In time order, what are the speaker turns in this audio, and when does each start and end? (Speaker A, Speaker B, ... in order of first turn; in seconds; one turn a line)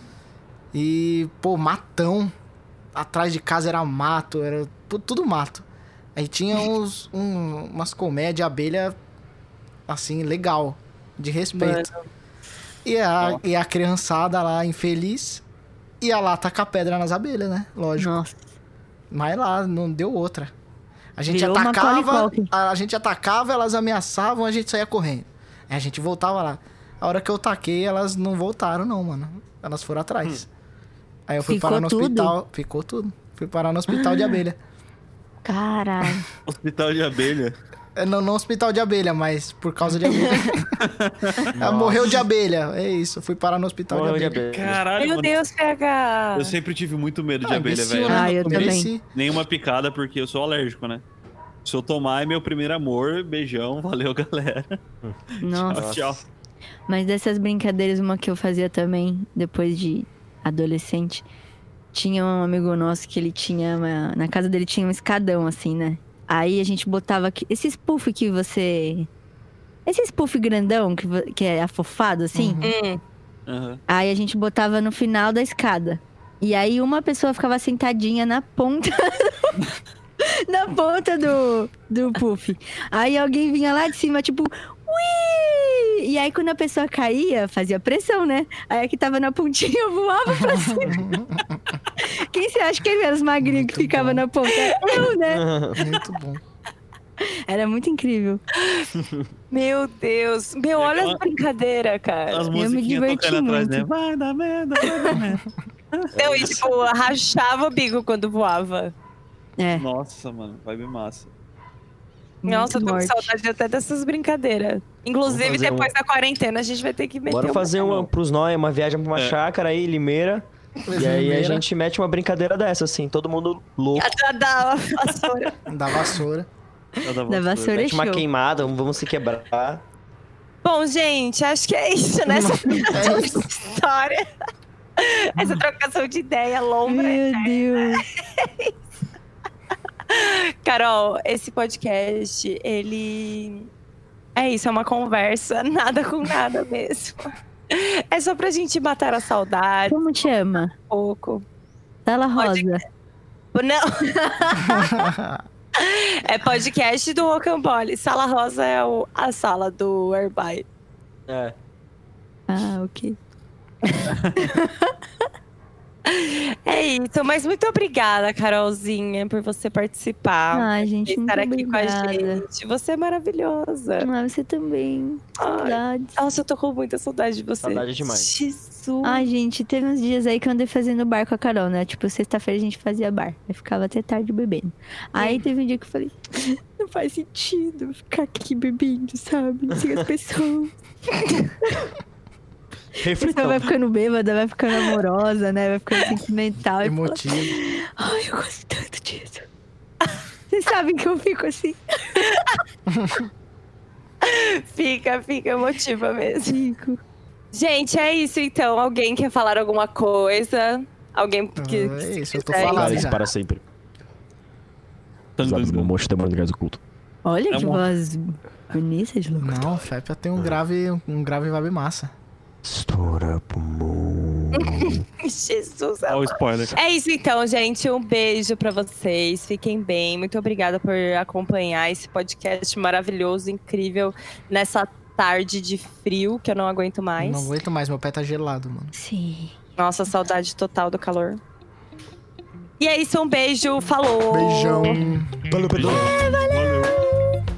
Speaker A: 0.7-2.3
Speaker A: 2.9-9.0
Speaker A: 9.9-11.9
Speaker B: 11.6-12.0
Speaker A: 12.8-15.4
Speaker A: 16.0-18.2
Speaker C: 18.0-18.4
Speaker A: 19.1-20.5
Speaker A: 21.2-30.5
Speaker C: 21.3-22.5
Speaker A: 31.3-34.6
Speaker C: 31.4-32.4
Speaker C: 33.9-34.3
Speaker C: 35.5-36.2
Speaker D: 36.5-37.5
Speaker A: 38.0-40.7
Speaker D: 40.8-42.2
Speaker A: 41.6-44.5
Speaker E: 43.9-44.8
Speaker D: 44.5-45.4
Speaker B: 45.0-46.6
Speaker D: 46.4-51.0
Speaker A: 47.4-49.0
Speaker C: 48.1-48.9
Speaker D: 51.6-54.8
Speaker C: 55.4-55.9
Speaker D: 55.5-56.2
Speaker E: 55.7-56.2
Speaker C: 56.9-61.2
Speaker C: 61.9-69.1
Speaker C: 69.9-72.6
Speaker A: 72.3-72.7
Speaker B: 72.6-73.0
Speaker D: 73.5-73.8
Speaker C: 73.9-79.6
Speaker C: 80.2-91.0
Speaker A: 90.3-91.6
Speaker C: 92.0-95.5
Speaker A: 93.4-94.2
Speaker B: 94.5-95.1
Speaker E: 95.2-95.8
Speaker A: 95.8-96.4
Speaker C: 97.2-98.4
Speaker B: 98.6-98.9
Speaker E: 99.0-99.3
Speaker B: 99.5-102.5
Speaker D: 100.8-101.2
Speaker D: 102.3-106.6
Speaker C: 102.5-103.9
Speaker E: 106.2-106.6
Speaker B: 106.2-108.9
Speaker C: 109.6-109.9
Speaker D: 109.8-111.3
Speaker C: 112.4-113.3
Speaker B: 112.5-118.1
Speaker E: 115.3-115.9
Speaker E: 117.3-124.1
Speaker A: 120.9-121.7
Speaker B: 124.0-125.6
Speaker A: 125.7-126.5
Speaker D: 127.0-127.8
Speaker C: 127.2-128.3
Speaker E: 127.8-129.8
Speaker B: 130.6-134.3
Speaker A: 132.4-133.5
Speaker B: 135.0-138.7
Speaker C: 136.9-138.1
Speaker B: 140.1-143.7
Speaker B: 144.3-150.0
Speaker C: 149.9-150.7
Speaker B: 150.9-151.4
Speaker C: 152.1-152.8
Speaker B: 152.4-152.8
Speaker B: 153.5-154.8
Speaker C: 154.2-154.9
Speaker A: 154.6-155.4
Speaker B: 155.8-160.6
Speaker E: 161.3-161.6
Speaker C: 162.5-163.2
Speaker C: 164.4-164.9
Speaker B: 166.1-174.1
Speaker C: 170.5-172.4
Speaker C: 174.0-176.2
Speaker B: 175.4-179.3
Speaker E: 177.6-178.3
Speaker C: 179.0-190.7
Speaker B: 185.2-185.4
Speaker E: 193.0-193.7
Speaker C: 193.2-199.5
Speaker A: 196.8-197.6
Speaker C: 200.5-202.3
Speaker A: 202.9-203.3
Speaker B: 204.2-206.6
Speaker C: 206.5-207.0
Speaker B: 207.5-213.1
Speaker A: 211.6-213.2
Speaker E: 212.6-213.7
Speaker D: 215.4-215.9
Speaker E: 215.4-216.8
Speaker C: 217.2-219.6
Speaker D: 217.5-217.9
Speaker A: 219.4-222.1
Speaker E: 222.6-225.0
Speaker B: 224.6-237.5
Speaker D: 226.1-226.8
Speaker A: 237.2-238.9
Speaker C: 238.9-239.6
Speaker B: 239.8-241.4
Speaker B: 242.8-245.0
Speaker A: 244.3-245.4
Speaker E: 245.5-246.3
Speaker D: 245.7-246.9
Speaker C: 245.9-247.2